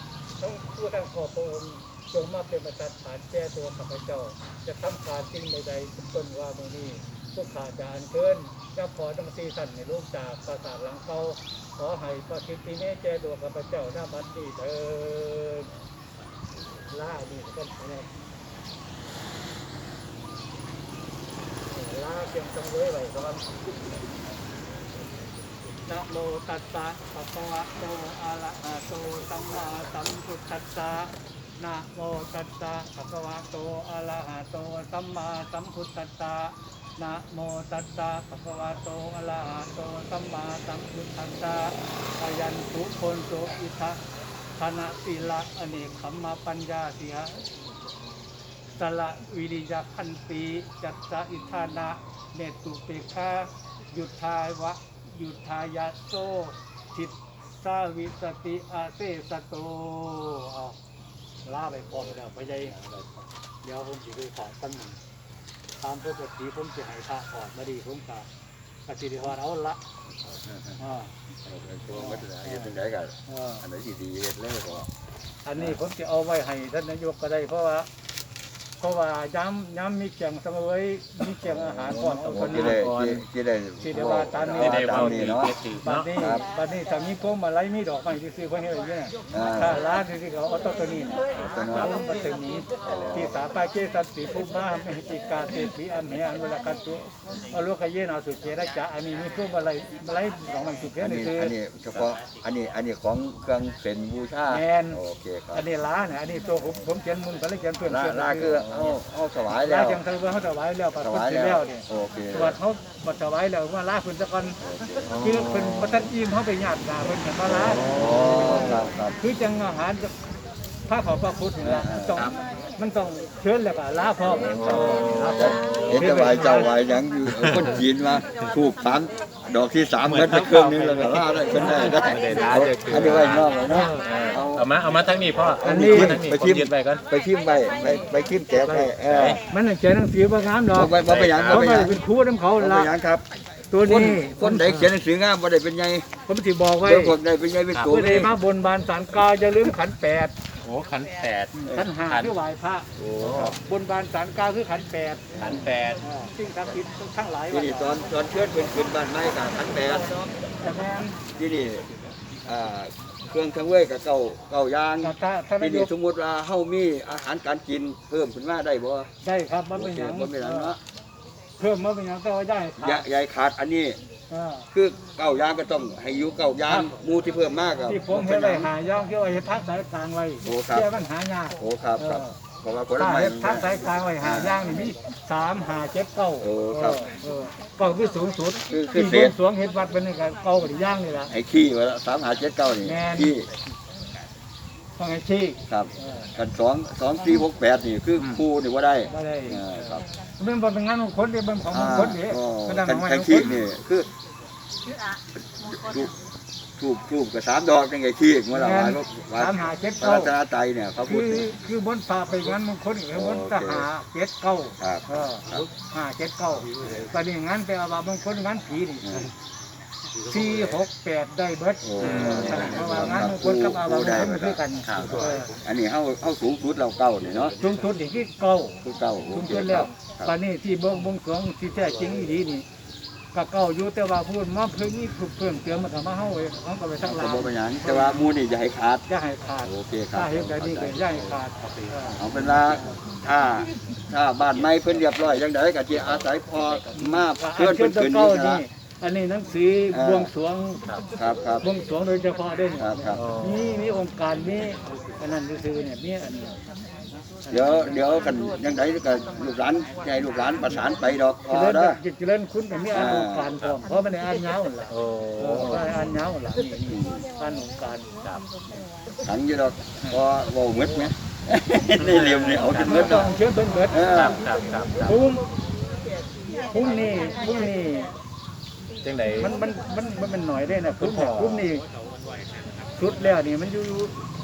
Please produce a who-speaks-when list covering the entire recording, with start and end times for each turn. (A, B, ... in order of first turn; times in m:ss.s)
0:00.4-0:15.7 A
0:16.9-0:18.1 A
0:21.7-0:23.5 A
0:25.8-0:44.0 A
0:44.6-0:47.4 A
0:48.8-1:00.8 A
1:01.4-1:05.0 A
1:05.8-1:08.3 A
1:08.9-1:09.8 A
1:10.2-1:10.6 B
1:10.8-1:11.1 A
1:11.4-1:14.9 B
1:11.9-1:12.7 A
1:13.3-1:13.6 A
1:15.4-1:17.9 A
1:18.8-1:22.8 A
1:21.4-1:25.5 B
1:22.1-1:23.2 C
1:23.8-1:41.5 A
1:24.5-1:26.2 C
1:26.2-1:26.4 B
1:29.3-1:29.8 B
1:31.4-1:32.1 B
1:32.8-1:33.3 B
1:41.0-1:45.6 B
1:44.5-1:45.0 A
1:45.5-1:48.6 A
1:47.8-1:50.0 B
1:48.6-1:48.9 C
1:49.5-1:54.6 A
1:51.0-1:52.6 B
1:54.6-1:55.2 B
1:55.1-1:56.0 C
1:55.1-2:00.1 A
1:57.5-1:59.2 B
1:57.6-1:58.8 C
2:00.9-2:06.7 A
2:01.6-2:02.4 B
2:04.2-2:14.7 B
2:04.5-2:05.5 C
2:10.0-2:17.0 C
2:11.6-2:12.0 A
2:13.7-2:14.1 A
2:15.6-2:19.4 B
2:15.6-2:16.2 A
2:18.6-2:22.9 A
2:20.7-2:22.0 B
2:21.0-2:21.7 C
2:22.6-2:23.2 B
2:23.7-2:24.8 A
2:23.8-2:26.0 B
2:26.3-2:27.2 A
2:26.8-2:28.3 B
2:27.8-2:30.3 A
2:30.6-2:31.5 C
2:31.5-2:32.9 A
2:32.0-2:32.3 C
2:33.0-2:33.6 B
2:33.2-2:33.6 C
2:33.5-2:37.9 A
2:35.4-2:35.7 B
2:35.4-2:36.0 C
2:37.5-2:40.1 B
2:39.8-2:41.2 A
2:41.3-2:41.8 B
2:42.4-2:49.1 B
2:45.0-2:45.9 A
2:49.2-2:50.7 A
2:49.7-2:50.8 B
2:51.6-2:53.0 A
2:52.8-2:54.0 B
2:54.3-2:54.7 A
2:54.7-2:58.7 B
2:56.7-2:56.9 A
2:57.9-3:02.4 A
3:00.4-3:00.9 B
3:01.6-3:04.6 B
3:03.0-3:11.3 A
3:06.4-3:07.0 B
3:08.7-3:09.4 B
3:11.3-3:13.5 B
3:12.8-3:13.3 A
3:15.0-3:16.3 A
3:15.7-3:20.0 B
3:19.1-3:19.6 A
3:20.4-3:23.5 A
3:21.7-3:24.1 B
3:25.6-3:26.1 B
3:26.8-3:31.5 B
3:28.5-3:30.3 A
3:31.0-3:39.3 A
3:33.1-3:33.9 B
3:34.8-3:35.6 B
3:39.0-3:39.3 B
3:40.2-3:45.5 A
3:41.8-3:47.5 B
3:42.0-3:43.0 C
3:44.9-3:45.2 C
3:47.6-3:48.8 A
3:48.8-3:50.3 B
3:49.3-3:52.6 A
3:53.3-3:58.2 A
3:57.0-3:59.0 B
3:59.1-4:02.2 A
3:59.6-4:01.4 B
4:01.6-4:02.4 C
4:02.2-4:08.6 B
4:06.9-4:10.8 A
4:09.9-4:10.3 B
4:11.2-4:11.6 B
4:11.6-4:16.5 A
4:12.8-4:13.2 B
4:13.1-4:13.8 C
4:17.5-4:17.9 A
4:17.5-4:22.0 B
4:21.5-4:28.1 A
4:22.9-4:23.5 B
4:24.9-4:26.0 C
4:26.9-4:27.2 B
4:29.2-4:33.3 B
4:32.0-4:33.3 C
4:32.8-4:34.1 A
4:33.9-4:34.4 B
4:33.9-4:35.2 C
4:35.0-4:35.4 A
4:36.7-4:38.1 A
4:39.0-4:39.5 C
4:39.4-4:41.8 A
4:41.0-4:41.7 C
4:43.0-4:44.2 A